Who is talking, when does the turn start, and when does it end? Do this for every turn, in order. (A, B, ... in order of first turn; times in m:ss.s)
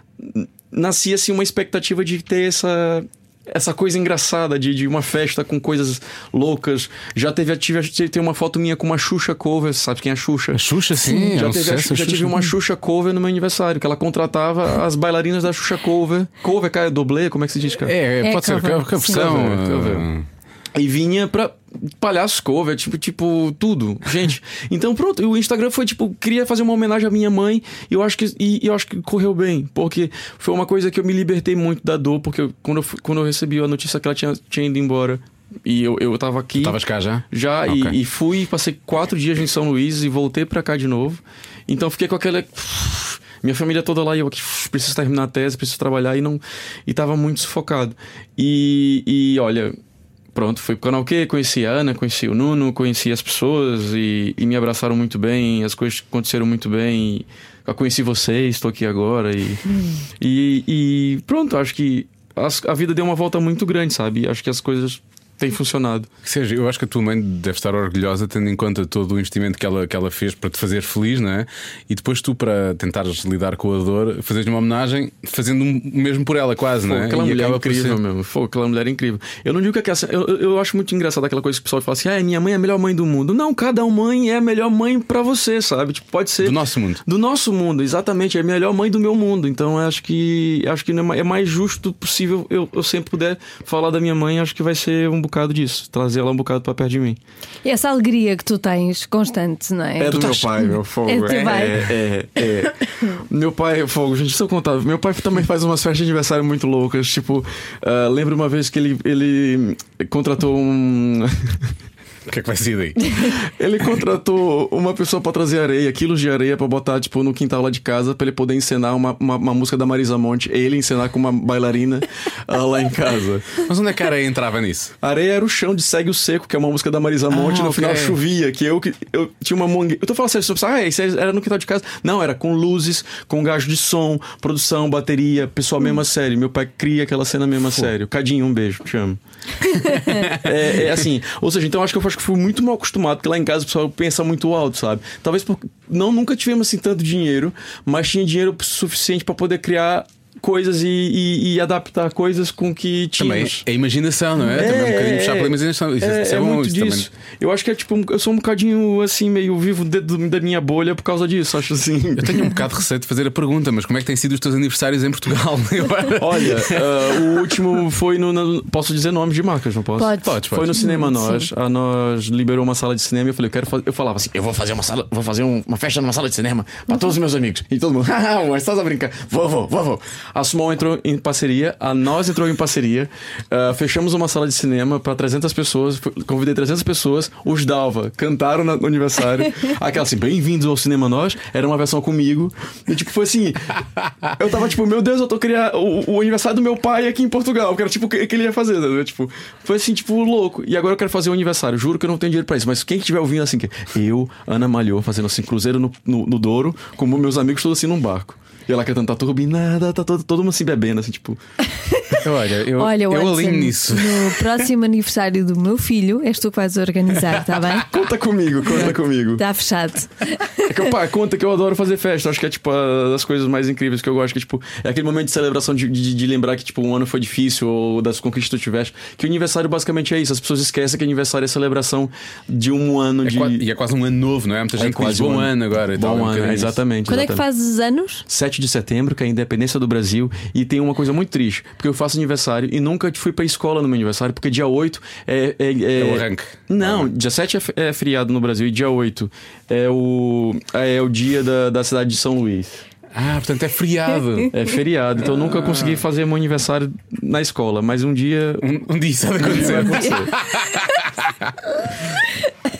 0:00.2-0:17.9 A
0:10.5-0:12.5 B
0:17.8-0:20.2 B
0:18.2-0:19.2 C
0:19.0-0:20.1 A
0:20.7-0:36.8 A
0:36.6-0:38.0 B
0:37.3-0:49.8 A
0:50.3-0:59.6 A
1:00.2-1:06.1 A
1:06.2-1:18.0 B
1:16.8-1:37.2 A
1:26.4-1:27.0 B
1:37.6-1:41.9 C
1:40.0-1:51.7 A
1:52.3-1:53.3 B
1:53.2-2:03.6 A
2:03.6-2:04.9 B
2:05.0-2:19.2 A
2:07.3-2:08.2 B
2:19.8-2:20.5 B
2:19.9-2:20.2 C
2:20.3-2:33.6 A
2:33.2-2:37.1 B
2:34.4-2:42.5 A
2:42.2-2:47.5 B
2:46.2-3:31.4 A
2:50.0-2:51.5 C
2:50.2-2:50.8 B
3:31.8-3:32.2 C
3:32.2-3:34.6 B
3:32.8-3:37.9 C
3:37.9-3:39.4 A
3:38.8-3:40.7 C
3:40.7-3:53.6 A
3:53.2-3:56.8 B
3:54.8-3:57.4 A
3:57.1-3:58.2 C
3:58.3-4:12.8 A
4:06.0-4:07.1 B
4:13.1-4:14.5 B
4:14.5-4:18.7 A
4:15.3-4:16.0 B
4:18.6-4:21.6 B
4:19.4-4:20.3 A